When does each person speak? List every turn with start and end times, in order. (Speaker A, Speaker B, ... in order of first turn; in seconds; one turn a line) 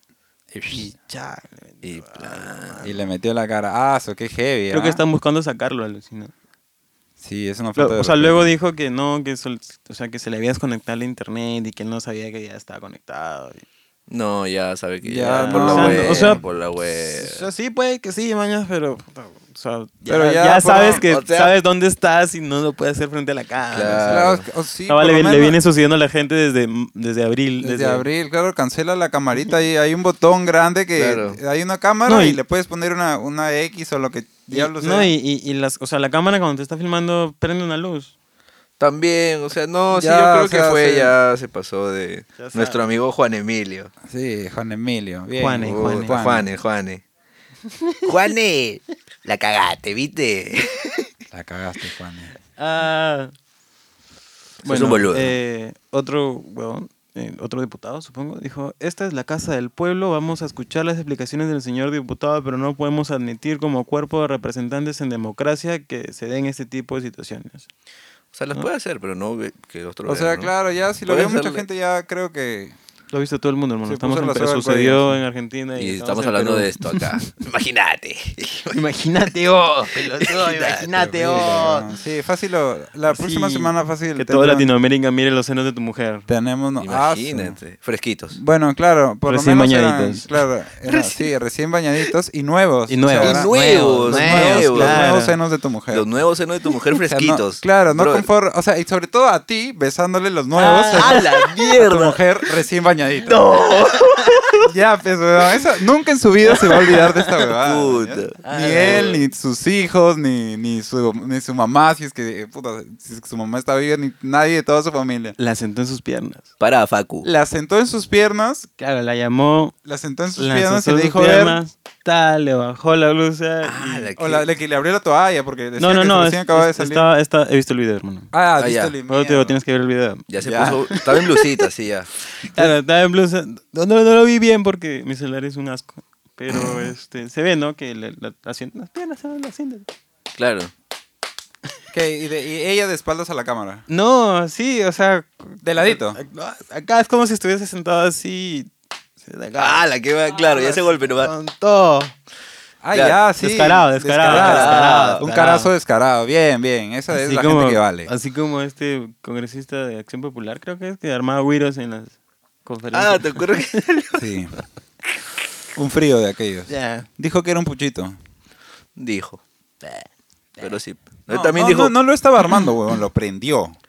Speaker A: 0.5-0.8
Speaker B: 0.7-2.9
Speaker C: 1.8-2.9
Speaker A: 2.8-5.0
Speaker B: 4.7-6.3
Speaker A: 7.2-8.5
Speaker B: 7.8-13.6
Speaker C: 14.1-17.5
Speaker A: 15.0-16.4
Speaker B: 15.2-28.1
Speaker A: 20.1-21.0
Speaker C: 20.8-21.5
Speaker C: 23.7-24.4
Speaker A: 24.1-25.6
Speaker A: 27.6-35.1
Speaker C: 30.9-31.4
Speaker B: 32.0-32.4
Speaker B: 34.5-38.1
Speaker C: 38.8-43.9
Speaker A: 39.9-41.1
Speaker B: 42.4-42.8
Speaker A: 44.1-46.5
Speaker B: 45.4-46.2
Speaker C: 45.6-47.0
Speaker B: 47.7-48.1
Speaker C: 48.0-51.1
Speaker A: 51.3-52.3
Speaker B: 52.6-53.3
Speaker C: 54.6-55.3
Speaker B: 54.6-67.7
Speaker C: 68.3-70.5
Speaker A: 70.0-72.8
Speaker C: 71.0-71.7
Speaker B: 73.1-77.2
Speaker A: 73.8-75.2
Speaker C: 75.8-78.8
Speaker B: 78.6-81.8
Speaker C: 79.8-81.0
Speaker A: 80.9-84.7
Speaker B: 83.1-86.3
Speaker A: 86.3-87.6
Speaker C: 86.8-88.4
Speaker A: 88.3-96.0
Speaker B: 89.2-90.3
Speaker B: 92.9-95.3
Speaker C: 93.2-95.1
Speaker C: 95.9-98.3
Speaker A: 97.0-103.5
Speaker B: 100.5-101.5
Speaker C: 100.6-102.2
Speaker C: 103.2-104.7
Speaker A: 104.6-115.3
Speaker C: 107.5-109.2
Speaker B: 108.4-109.2
Speaker B: 115.4-116.5
Speaker C: 116.6-117.3
Speaker A: 117.2-118.7
Speaker B: 118.8-119.7
Speaker A: 119.8-121.6
Speaker B: 120.3-124.1
Speaker C: 123.6-124.5
Speaker A: 124.2-127.1
Speaker B: 125.8-128.3
Speaker A: 128.3-129.6
Speaker C: 128.6-128.9
Speaker B: 129.1-131.6
Speaker C: 130.3-132.1
Speaker A: 130.4-130.8
Speaker B: 132.4-139.9
Speaker C: 136.5-136.9
Speaker C: 140.3-140.7
Speaker A: 141.9-143.8
Speaker B: 143.9-148.7
Speaker A: 145.6-146.2
Speaker B: 149.2-152.1
Speaker C: 149.6-151.3
Speaker A: 152.8-158.1
Speaker C: 152.9-153.2
Speaker B: 153.4-155.7
Speaker C: 154.2-155.2
Speaker B: 157.1-163.8
Speaker C: 162.9-164.3
Speaker A: 164.2-164.5
Speaker A: 165.7-168.2
Speaker B: 166.7-167.1
Speaker C: 168.9-169.4
Speaker C: 170.6-171.9
Speaker A: 171.3-173.8